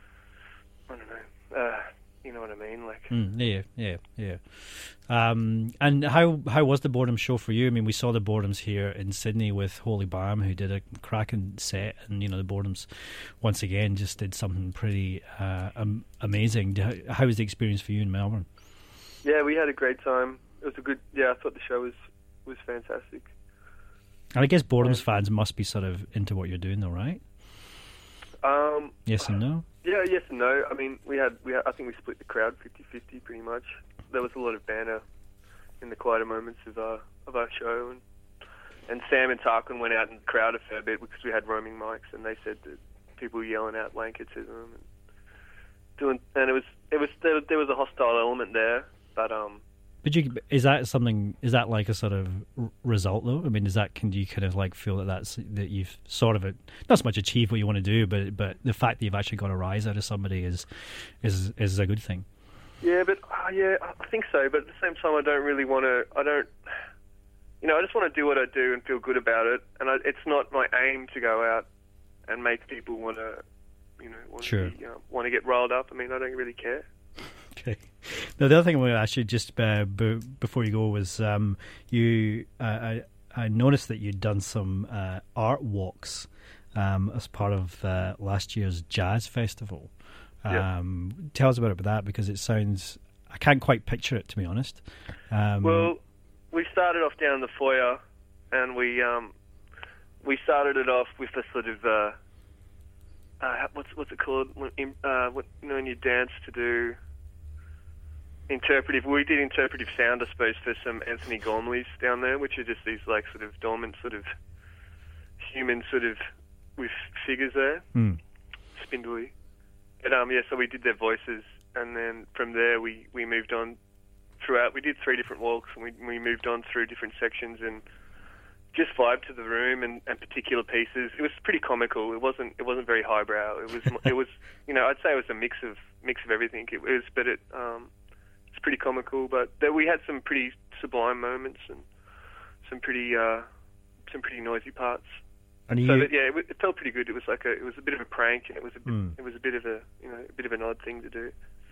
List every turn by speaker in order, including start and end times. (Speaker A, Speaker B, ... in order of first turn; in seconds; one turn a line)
Speaker A: 0.9-3.1
Speaker B: 3.1-18.5
Speaker A: 19.2-23.3
Speaker B: 24.4-27.2
Speaker A: 28.4-29.3
Speaker B: 29.1-29.7
Speaker A: 29.8-35.0
Speaker A: 35.8-38.0
Speaker A: 38.9-44.9
Speaker A: 46.0-49.6
Speaker B: 50.0-62.2
Speaker A: 62.8-66.5
Speaker A: 67.6-71.7
Speaker A: 72.3-73.4
Speaker A: 74.0-76.9
Speaker B: 74.4-74.7
Speaker B: 77.5-89.9
Speaker B: 90.4-95.9
Speaker A: 95.6-96.0
Speaker A: 96.5-98.0
Speaker A: 98.5-99.3
Speaker A: 100.2-102.2
Speaker A: 103.4-107.0
Speaker A: 108.5-114.3
Speaker A: 115.4-116.3
Speaker A: 116.8-117.9
Speaker B: 118.0-118.2
Speaker A: 118.8-119.3
Speaker A: 120.0-123.8
Speaker A: 124.4-127.8
Speaker A: 128.7-137.9
Speaker A: 138.5-141.9
Speaker A: 142.6-143.5
Speaker A: 144.1-145.2
Speaker B: 145.7-146.1
Speaker A: 145.8-151.3
Speaker B: 148.9-149.2